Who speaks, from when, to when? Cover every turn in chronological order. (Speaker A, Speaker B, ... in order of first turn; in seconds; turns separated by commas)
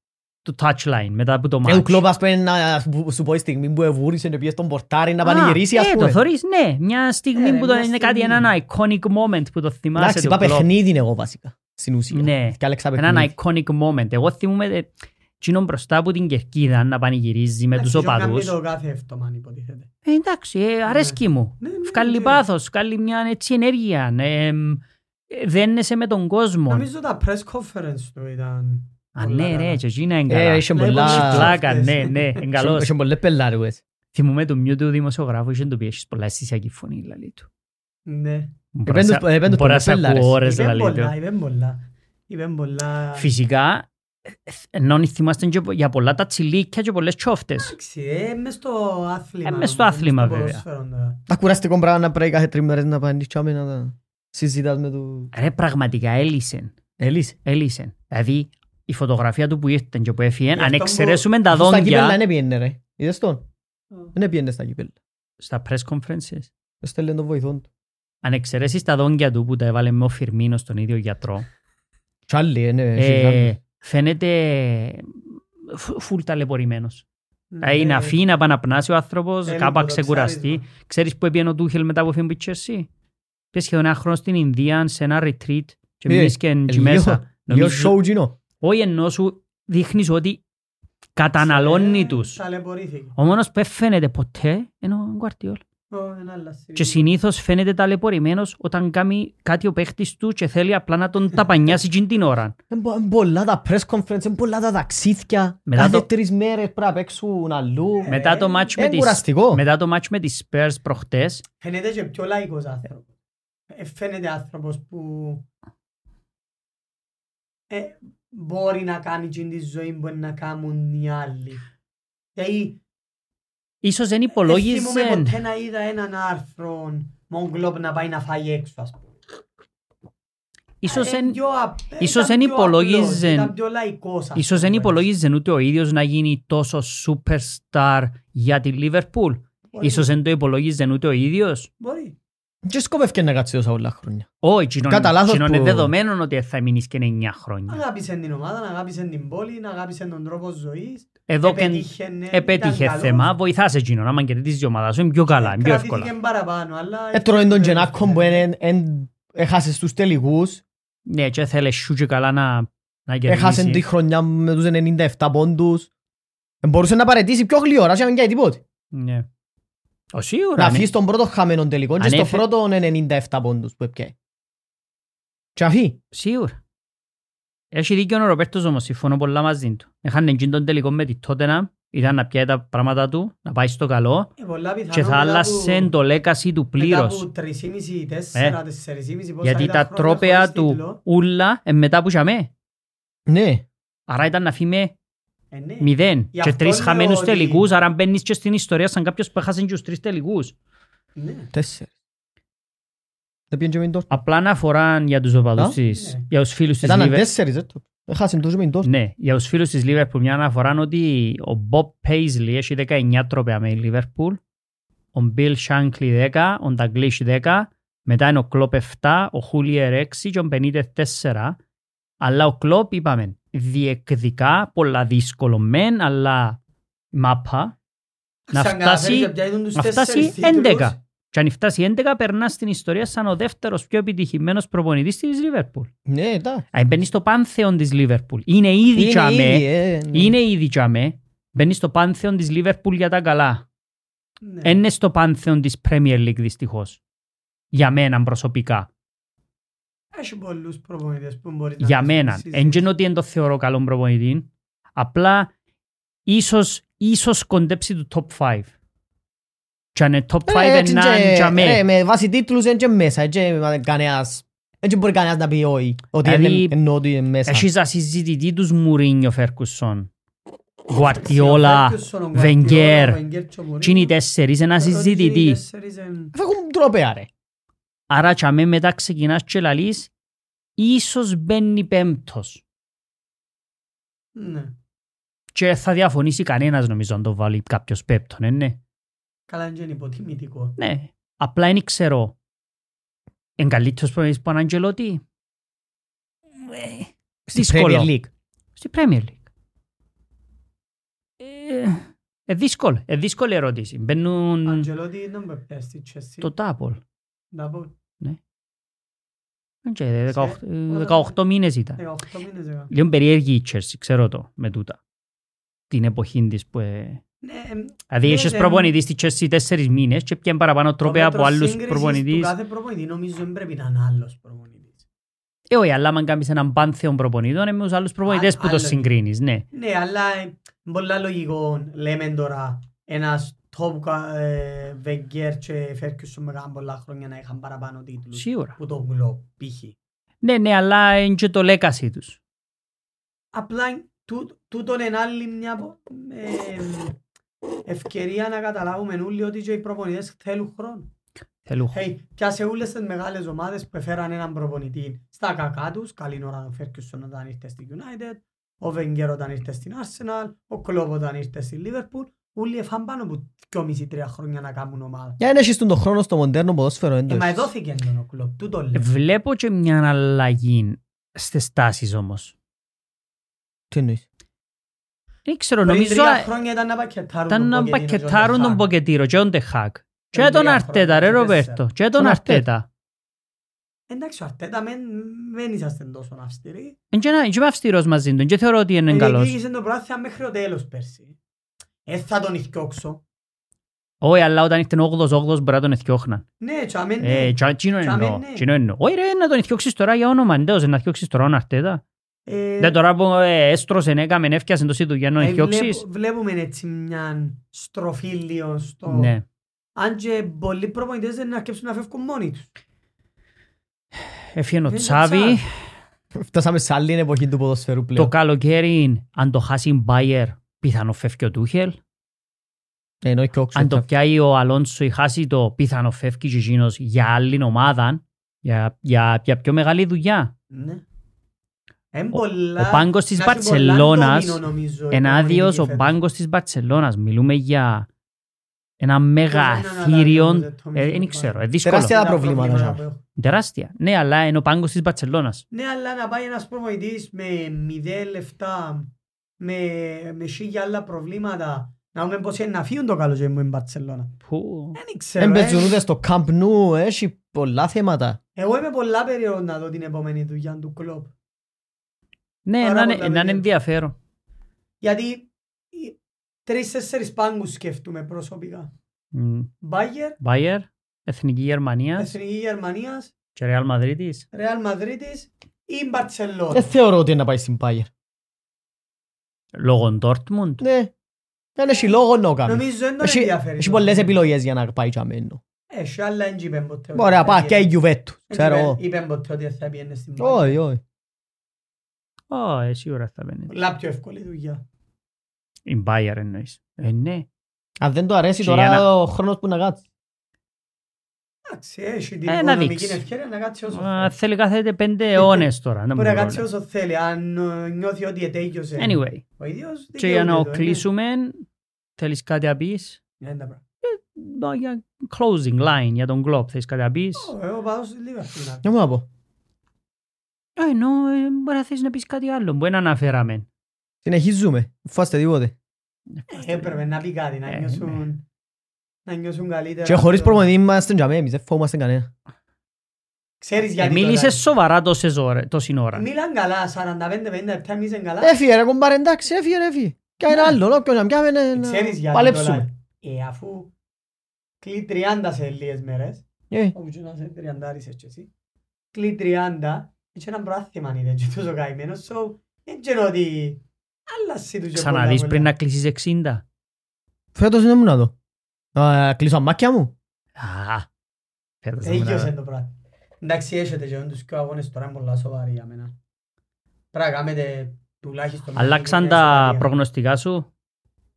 Speaker A: 0.5-2.0, Speaker B: 1.7-6.2, Speaker A: 5.2-10.7, Speaker C: 7.3-8.5, Speaker B: 10.0-13.3, Speaker A: 12.1-18.6, Speaker C: 17.8-19.9, Speaker A: 20.1-26.9, Speaker C: 20.9-22.4, Speaker C: 26.7-29.8, Speaker A: 29.1-32.9, Speaker B: 30.3-31.6, Speaker C: 30.7-32.4, Speaker B: 32.6-33.8, Speaker A: 34.1-37.5, Speaker C: 38.1-38.5, Speaker A: 38.7-41.1, Speaker B: 38.9-40.4, Speaker C: 40.4-43.3, Speaker A: 43.2-47.7, Speaker C: 47.6-51.2, Speaker A: 49.5-50.6, Speaker B: 51.3-55.3, Speaker A: 55.3-56.7, Speaker B: 57.0-57.4, Speaker A: 57.5-62.2, Speaker C: 60.5-61.3, Speaker B: 61.5-63.4, Speaker B: 64.1-65.0, Speaker A: 65.4-66.5, Speaker B: 66.8-67.7, Speaker A: 68.2-71.5, Speaker B: 72.3-73.5, Speaker A: 73.0-77.0, Speaker C: 77.5-78.2, Speaker A: 77.6-82.9, Speaker C: 79.5-80.6, Speaker A: 83.5-88.0, Speaker B: 86.1-88.4, Speaker A: 88.6-90.4, Speaker A: 91.2-92.4, Speaker C: 91.4-93.2, Speaker A: 93.2-95.6, Speaker C: 95.9-97.1, Speaker A: 96.8-102.5, Speaker B: 102.7-108.2, Speaker A: 105.7-106.1, Speaker C: 108.0-108.7, Speaker A: 108.1-111.4, Speaker B: 108.8-109.6, Speaker C: 111.6-113.1, Speaker C: 113.7-115.5, Speaker C: 117.7-121.6, Speaker C: 122.4-122.8, Speaker A: 123.8-125.4, Speaker C: 124.3-129.2, Speaker A: 130.8-131.4, Speaker C: 130.9-135.1, Speaker A: 132.0-133.5, Speaker A: 134.3-141.7, Speaker C: 139.7-140.1, Speaker C: 141.8-142.2, Speaker B: 142.7-144.3, Speaker A: 144.4-147.8, Speaker B: 144.9-145.9, Speaker C: 147.7-153.3, Speaker A: 151.3-156.1, Speaker C: 155.3-158.5, Speaker B: 157.1-160.6, Speaker A: 161.1-163.8, Speaker B: 163.3-165.9, Speaker B: 166.6-168.6, Speaker A: 168.9-169.3, Speaker A: 170.1-170.9, Speaker B: 170.6-174.1, Speaker A: 172.0-172.4, Speaker B: 175.6-176.0, Speaker A: 176.1-176.6, Speaker A: 177.7-184.3, Speaker C: 184.4-185.9, Speaker A: 184.9-187.2, Speaker C: 186.8-191.0, Speaker A: 189.4-192.5, Speaker B: 193.3-193.7, Speaker A: 194.1-194.9, Speaker C: 195.5-197.7, Speaker A: 195.8-200.6, Speaker C: 201.2-201.5, Speaker B: 201.5-201.9, Speaker B: 203.5-204.1, Speaker A: 204.1-207.3, Speaker C: 205.9-206.2, Speaker B: 206.8-208.9, Speaker A: 208.8-214.4, Speaker A: 215.1-221.6, Speaker A: 222.2-226.6, Speaker A: 227.1-227.8, Speaker C: 228.5-231.0, Speaker A: 228.5-235.9, Speaker B: 236.1-236.7, Speaker A: 236.7-243.7, Speaker B: 238.9-240.3, Speaker C: 244.4-244.8, Speaker A: 244.6-247.0, Speaker A: 247.7-248.9, Speaker C: 250.1-252.9, Speaker A: 251.8-255.5, Speaker A: 256.3-258.7, Speaker A: 259.9-261.9, Speaker B: 260.5-267.7, Speaker A: 266.2-266.8, Speaker A: 267.4-270.1, Speaker A: 270.9-273.2, Speaker C: 271.0-274.1, Speaker A: 273.8-275.6, Speaker C: 274.8-276.3, Speaker B: 276.3-277.3, Speaker A: 278.1-280.1, Speaker A: 280.8-282.6, Speaker C: 284.4-284.8, Speaker A: 285.5-288.8, Speaker C: 289.5-290.8, Speaker A: 290.8-292.4, Speaker A: 293.6-295.2, Speaker A: 296.6-298.1, Speaker B: 297.5-298.3, Speaker A: 298.8-299.4, Speaker A: 301.4-304.9, Speaker C: 304.7-306.5, Speaker A: 306.4-307.0, Speaker C: 307.5-307.9, Speaker A: 309.9-312.0, Speaker C: 310.3-311.4, Speaker C: 312.0-312.9, Speaker A: 312.9-315.0, Speaker A: 315.9-317.2, Speaker C: 317.4-318.9, Speaker A: 318.1-322.5, Speaker C: 321.0-325.0, Speaker A: 325.7-329.6, Speaker C: 328.3-329.1, Speaker C: 329.7-339.9, Speaker A: 338.3-338.8, Speaker A: 340.4-342.4, Speaker C: 343.5-347.2, Speaker C: 347.9-351.1, Speaker A: 351.7-352.0, Speaker C: 351.9-365.4, Speaker B: 365.4-367.7, Speaker C: 367.3-369.1, Speaker A: 368.9-372.5, Speaker B: 373.9-374.2, Speaker A: 375.5-376.5, Speaker C: 375.9-378.9, Speaker A: 377.5-382.9, Speaker C: 380.3-381.9, Speaker B: 382.1-382.6, Speaker C: 384.1-387.0, Speaker A: 387.1-389.6, Speaker C: 389.1-391.4, Speaker C: 392.1-393.2, Speaker A: 394.2-396.4, Speaker C: 396.6-398.7, Speaker A: 397.2-402.0, Speaker C: 402.5-403.0, Speaker A: 402.8-406.0, Speaker C: 405.4-409.4, Speaker A: 409.1-409.4, Speaker C: 410.0-412.7, Speaker A: 414.2-415.6, Speaker C: 414.9-415.6, Speaker B: 416.3-418.3, Speaker A: 418.1-422.0, Speaker B: 423.2-424.1, Speaker A: 423.8-430.5, Speaker C: 430.7-431.0, Speaker C: 432.1-436.2, Speaker A: 432.3-438.1, Speaker A: 439.0-442.2, Speaker C: 439.5-443.2, Speaker B: 441.8-443.0, Speaker A: 443.4-445.6, Speaker C: 445.7-454.4, Speaker A: 454.4-455.0, Speaker C: 454.9-456.0, Speaker B: 455.4-458.4, Speaker C: 458.6-461.3, Speaker A: 462.7-464.1, Speaker C: 462.8-463.7, Speaker C: 465.0-468.9, Speaker A: 469.3-469.7, Speaker C: 469.8-470.4, Speaker A: 470.4-472.3, Speaker C: 472.2-473.3, Speaker A: 473.6-474.5, Speaker C: 474.5-476.9, Speaker B: 476.7-478.1, Speaker A: 479.7-480.8, Speaker B: 480.8-481.1, Speaker B: 481.8-485.6, Speaker C: 482.7-484.4, Speaker C: 485.9-487.9, Speaker B: 487.1-489.0, Speaker C: 488.5-490.8, Speaker B: 490.4-491.0, Speaker A: 492.5-493.8, Speaker C: 493.7-494.8, Speaker A: 495.9-497.5, Speaker B: 498.0-500.0, Speaker A: 498.6-499.1, Speaker C: 501.7-504.3, Speaker A: 502.5-503.2, Speaker A: 503.9-506.7, Speaker C: 505.4-511.0, Speaker A: 509.0-509.4, Speaker A: 510.2-511.7, Speaker A: 512.2-513.2, Speaker C: 513.4-513.8, Speaker A: 514.0-517.5, Speaker C: 517.4-518.9, Speaker B: 518.8-519.3, Speaker A: 520.8-523.7, Speaker B: 524.2-525.7, Speaker A: 526.4-527.0, Speaker C: 526.5-528.5, Speaker A: 527.7-528.2, Speaker C: 529.3-530.7, Speaker B: 530.1-532.3, Speaker C: 533.6-534.6, Speaker A: 534.0-536.3, Speaker C: 536.1-538.5, Speaker B: 538.4-542.9, Speaker C: 540.5-540.8, Speaker C: 541.8-543.9, Speaker C: 544.8-548.5, Speaker C: 549.1-555.7, Speaker A: 555.0-556.6, Speaker B: 557.5-558.4, Speaker B: 559.0-560.1, Speaker A: 560.6-561.1, Speaker A: 561.8-562.5, Speaker C: 562.0-566.1, Speaker C: 567.1-570.0, Speaker A: 568.8-570.7